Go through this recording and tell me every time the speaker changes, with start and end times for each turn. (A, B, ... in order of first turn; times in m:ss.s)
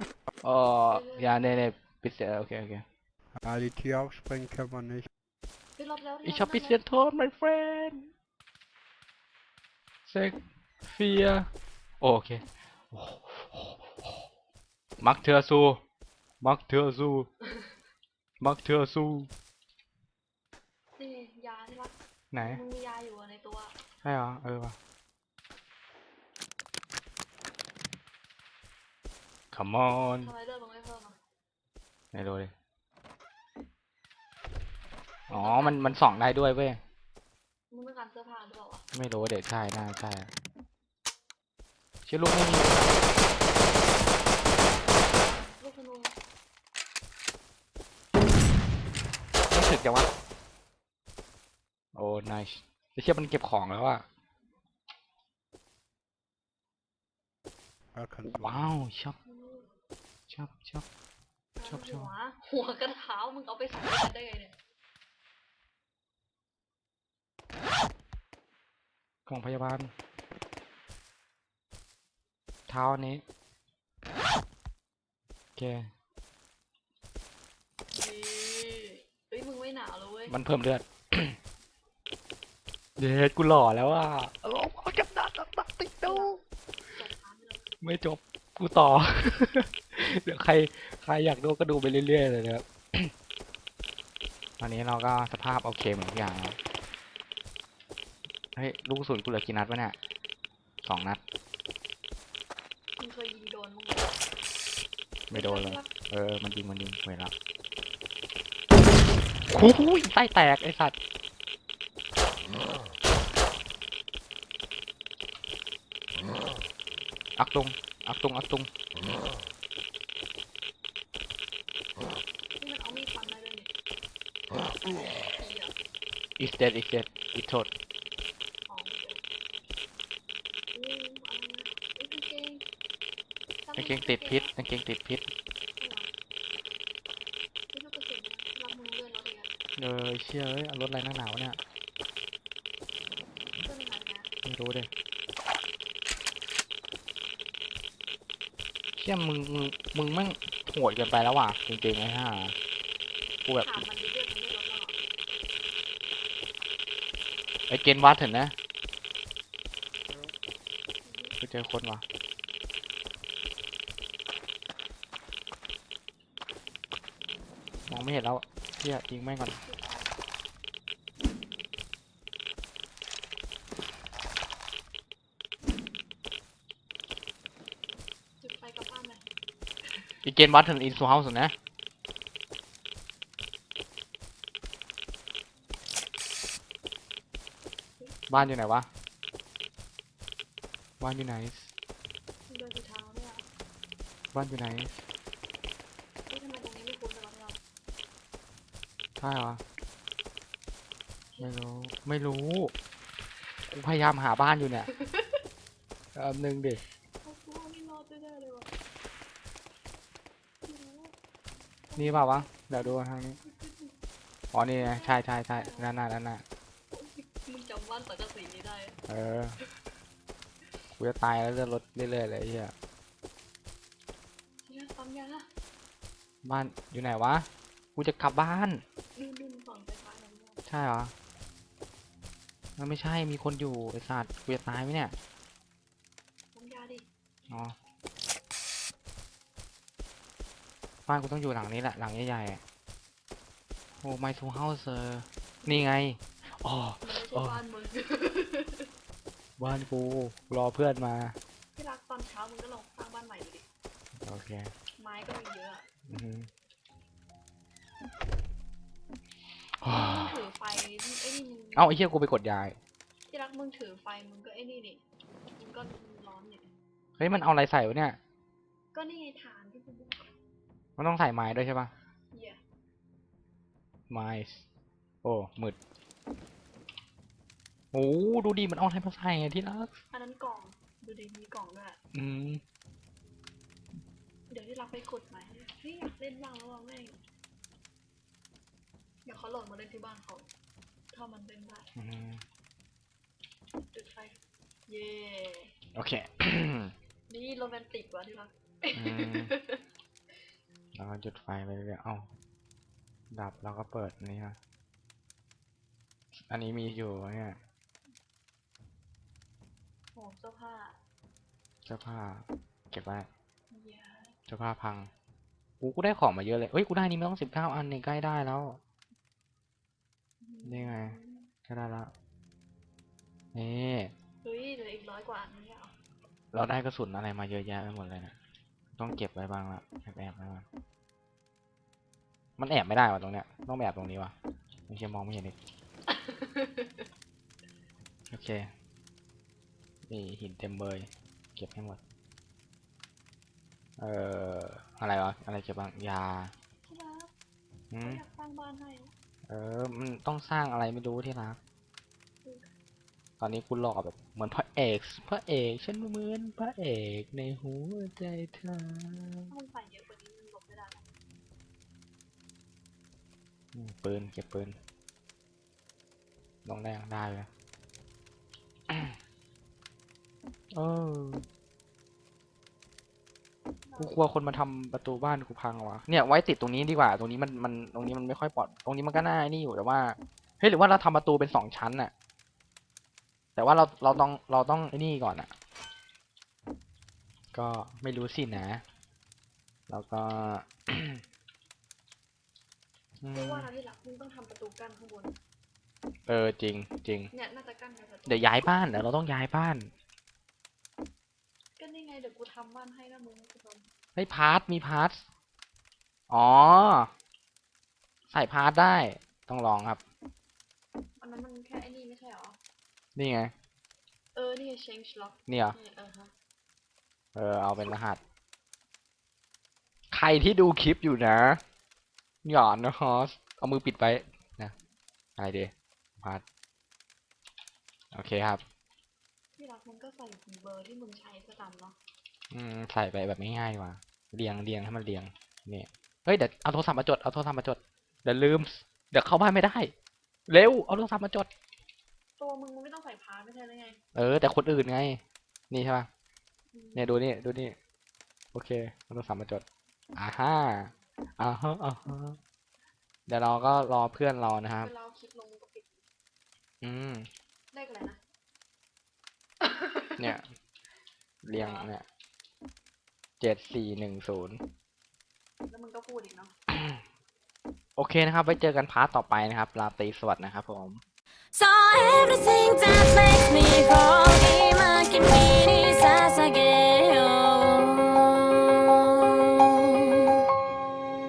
0:00.4-0:02.8 A
0:00.9-0:01.4 B
0:03.4-0:05.1 C
0:05.8-0:06.8 B
0:06.2-0:08.1 A
0:10.1-0:11.5 A
0:12.0-0:14.3 A
0:15.0-0:15.8 A
0:16.4-0:17.3 A
0:18.4-0:19.3 A
0:21.0-0:23.8 B
0:22.3-0:22.6 A
0:24.0-0:24.8 A
0:29.5-0:30.3 A
0:30.2-0:31.2 B
0:32.1-0:32.5 A
0:35.3-0:36.0 B
0:35.3-0:36.8 A
0:37.7-0:38.8 B
0:38.9-0:40.3 A
0:42.0-0:43.0 A
0:45.1-0:46.1 B
0:49.5-0:50.1 A
0:51.9-0:54.0 A
0:57.9-0:58.7 C
0:58.3-0:59.2 A
0:59.2-0:59.7 B
1:00.3-1:00.8 A
1:01.6-1:04.6 B
1:01.7-1:02.1 A
1:09.3-1:09.9 A
1:12.7-1:13.2 A
1:15.6-1:15.9 A
1:17.9-1:20.3 B
1:20.3-1:21.4 A
1:23.0-1:26.4 A
1:26.0-1:26.3 B
1:26.8-1:27.7 B
1:27.8-1:33.1 A
1:34.6-1:36.6 A
1:38.5-1:40.0 A
1:40.8-1:41.2 A
1:43.0-1:44.2 B
1:45.3-1:47.3 A
1:45.3-1:45.9 B
1:49.5-1:50.9 A
1:57.4-1:58.7 A
2:02.6-2:03.7 B
2:05.1-2:05.7 B
2:06.4-2:07.7 A
2:08.7-2:09.2 B
2:10.7-2:12.6 B
2:13.6-2:14.5 B
2:13.8-2:15.3 A
2:15.8-2:16.1 B
2:17.7-2:19.5 B
2:19.8-2:21.6 A
2:23.6-2:24.3 B
2:24.4-2:24.9 A
2:29.0-2:32.5 A
2:33.4-2:33.8 A
2:33.6-2:35.0 B
2:37.7-2:38.5 A
2:41.0-2:41.4 B
2:41.4-2:42.0 A
2:47.9-2:49.6 A
2:49.6-2:50.1 B
2:58.4-2:59.2 B
3:00.2-3:01.5 A
3:08.0-3:08.4 B
3:08.3-3:08.9 A
3:11.0-3:11.7 A
3:12.5-3:13.4 B
3:14.3-3:15.0 A
3:16.3-3:17.6 B
3:19.2-3:19.6 A
3:21.4-3:22.7 A
3:23.7-3:24.9 A
3:24.9-3:25.4 B
3:26.1-3:26.8 A
3:27.2-3:28.7 B
3:30.6-3:31.1 B
3:31.9-3:34.0 B
3:31.9-3:33.4 A
3:34.5-3:36.4 A
3:34.8-3:35.9 B
3:36.9-3:39.0 B
3:39.1-3:39.6 A
3:40.9-3:42.7 A
3:44.6-3:45.5 B
3:46.4-3:48.8 A
3:49.2-3:50.6 B
3:50.7-3:51.1 A
3:52.8-3:55.2 A
3:56.5-3:57.0 B
3:57.5-3:57.8 A
4:01.1-4:02.6 A
4:04.0-4:07.6 A
4:07.0-4:08.9 B
4:09.6-4:11.4 A
4:11.7-4:13.6 B
4:14.2-4:14.7 A
4:15.0-4:15.9 B
4:16.0-4:16.5 A
4:19.8-4:20.4 A
4:19.8-4:22.0 B
4:21.8-4:22.8 A
4:23.3-4:25.0 B
4:25.6-4:26.7 B
4:27.2-4:28.2 A
4:28.9-4:30.3 B
4:31.0-4:31.9 A
4:32.3-4:32.6 B
4:34.1-4:34.6 A
4:35.2-4:35.8 A
4:37.9-4:39.9 A
4:40.1-4:42.0 B
4:42.1-4:42.6 A
4:44.5-4:47.2 B
4:49.2-4:50.5 B
4:51.1-4:51.9 B
4:51.9-4:52.4 A
4:53.9-4:55.7 B
4:55.9-4:56.9 A
4:57.3-4:59.8 B
4:58.9-4:59.5 A
5:00.9-5:02.3 A
5:03.3-5:04.6 A
5:06.3-5:07.6 A
5:10.1-5:11.0 B
5:11.8-5:13.3 A
5:13.7-5:14.4 B
5:14.5-5:15.1 A
5:15.8-5:18.8 A
5:20.4-5:21.5 B
5:20.6-5:22.1 A
5:23.5-5:24.1 A
5:24.4-5:25.9 B
5:26.5-5:28.3 A
5:29.0-5:30.6 A
5:32.6-5:34.3 A
5:34.9-5:35.6 A
5:36.1-5:37.0 B
5:38.3-5:38.7 A
5:40.1-5:42.0 A
5:44.0-5:46.5 A
5:46.8-5:47.3 B
5:47.9-5:48.2 A
5:48.0-5:49.1 B
5:49.5-5:51.6 A
5:52.4-5:52.7 B
5:53.4-5:59.5 A
5:59.5-6:01.0 B
6:03.7-6:04.8 A
6:06.6-6:07.5 A
6:08.9-6:09.2 A
6:10.7-6:11.4 A
6:13.9-6:14.2 B
6:14.0-6:22.1 A
6:23.6-6:25.5 A
6:27.5-6:28.8 A
6:29.9-6:31.2 A
6:33.2-6:33.7 A
6:33.3-6:35.4 B
6:36.3-6:37.3 A
6:37.3-6:38.6 B
6:38.2-6:39.9 A
6:41.8-6:43.9 B
6:44.1-6:45.2 A
6:46.3-6:47.1 A
6:48.3-6:50.0 A
6:51.2-6:52.6 B
6:53.1-6:53.5 A
6:54.3-6:56.3 B
6:55.5-6:55.8 A
6:57.3-6:58.2 A
7:00.1-7:01.6 A
7:02.4-7:04.7 A
7:05.4-7:06.4 A
7:08.1-7:08.6 A
7:09.6-7:12.0 B
7:12.5-7:19.9 A
7:20.5-7:21.5 A
7:22.4-7:24.0 B
7:24.1-7:26.1 A
7:26.7-7:27.1 B
7:26.9-7:27.8 A
7:28.5-7:29.6 A
7:30.1-7:32.4 A
7:33.3-7:34.9 A
7:34.8-7:36.0 B
7:36.8-7:37.3 A
7:37.7-7:38.2 B
7:39.6-7:40.4 B
7:40.2-7:40.5 A
7:41.4-7:42.0 A
7:41.5-7:41.9 B
7:43.4-7:44.6 A
7:45.7-7:46.5 B
7:46.7-7:47.0 A
7:48.0-7:51.0 A
7:51.5-8:00.4 D